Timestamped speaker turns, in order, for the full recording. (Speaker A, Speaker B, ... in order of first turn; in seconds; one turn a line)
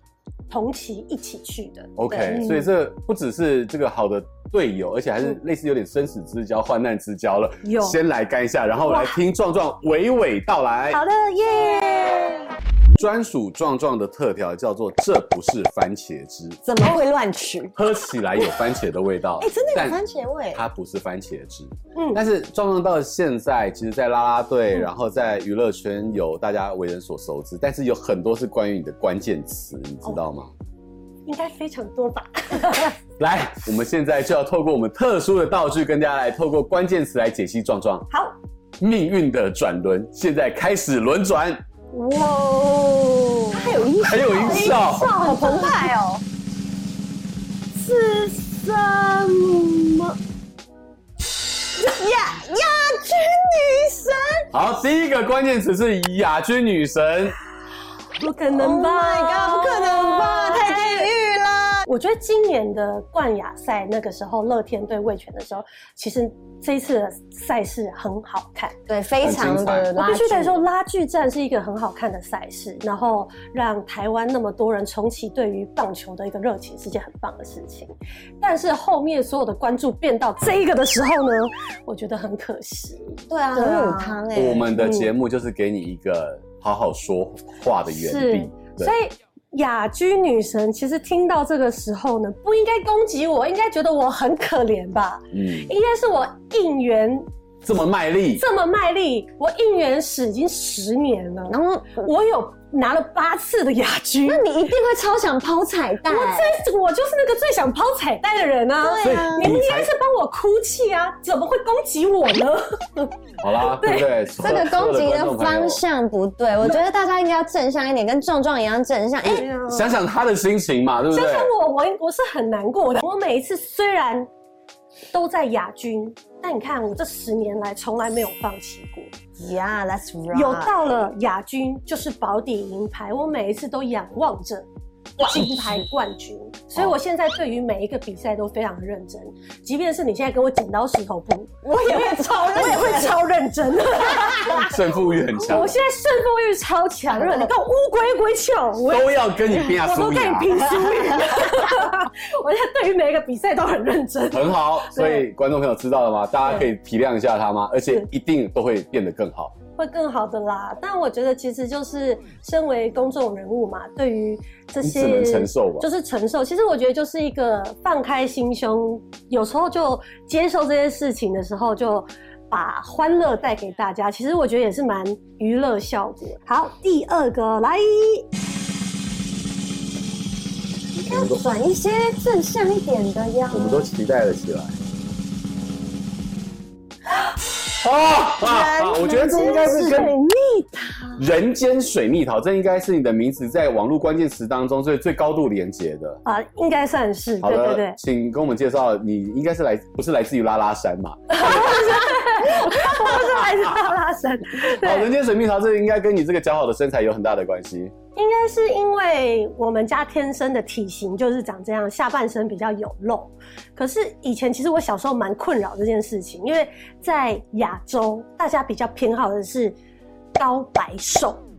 Speaker A: 0.5-2.6
Speaker B: 1.9-11.0
Speaker C: 2.1-2.5
Speaker A: 7.6-8.0
Speaker A: 8.9-9.2
Speaker A: 10.9-12.5
Speaker B: 13.0-16.6
Speaker C: 16.6-17.7
Speaker B: 17.8-20.0
Speaker C: 19.4-20.6
Speaker B: 20.5-30.5
Speaker A: 21.9-22.2
Speaker A: 31.2-33.0
Speaker B: 33.2-38.1
Speaker B: 38.8-41.6
Speaker A: 41.9-45.9
Speaker C: 43.5-46.2
Speaker B: 44.0-45.1
Speaker A: 47.7-50.1
Speaker C: 51.7-54.5
Speaker B: 54.5-57.4
Speaker A: 58.2-61.1
Speaker C: 58.5-61.9
Speaker A: 61.9-68.7
Speaker C: 68.9-70.6
Speaker B: 69.2-69.9
Speaker A: 70.0-84.2
Speaker C: 83.3-84.7
Speaker B: 84.3-88.9
Speaker A: 84.7-85.1
Speaker A: 87.9-97.2
Speaker B: 95.3-95.7
Speaker B: 97.6-98.4
Speaker A: 98.4-104.4
Speaker C: 101.5-102.1
Speaker C: 104.2-106.5
Speaker A: 106.1-113.1
Speaker C: 108.8-109.5
Speaker B: 109.0-109.9
Speaker B: 113.4-115.8
Speaker A: 113.7-114.1
Speaker C: 114.4-119.5
Speaker A: 119.2-120.0
Speaker B: 119.7-121.5
Speaker A: 121.1-124.3
Speaker A: 125.1-129.1
Speaker C: 129.4-131.1
Speaker A: 130.3-134.7
Speaker C: 135.2-135.9
Speaker A: 135.2-144.8
Speaker C: 141.6-143.2
Speaker B: 144.5-145.8
Speaker A: 145.4-155.2
Speaker C: 147.1-147.5
Speaker B: 148.9-151.0
Speaker B: 154.3-159.5
Speaker A: 156.4-156.7
Speaker A: 159.8-178.2
Speaker B: 164.8-165.9
Speaker C: 180.9-183.9
Speaker B: 181.1-181.4
Speaker B: 183.5-184.7
Speaker B: 187.8-190.1
Speaker C: 188.4-191.3
Speaker B: 191.2-196.2
Speaker A: 196.2-198.0
Speaker B: 197.4-202.1
Speaker A: 201.3-205.1
Speaker B: 203.2-203.6
Speaker B: 204.7-207.9
Speaker A: 208.1-219.8
Speaker A: 220.3-221.4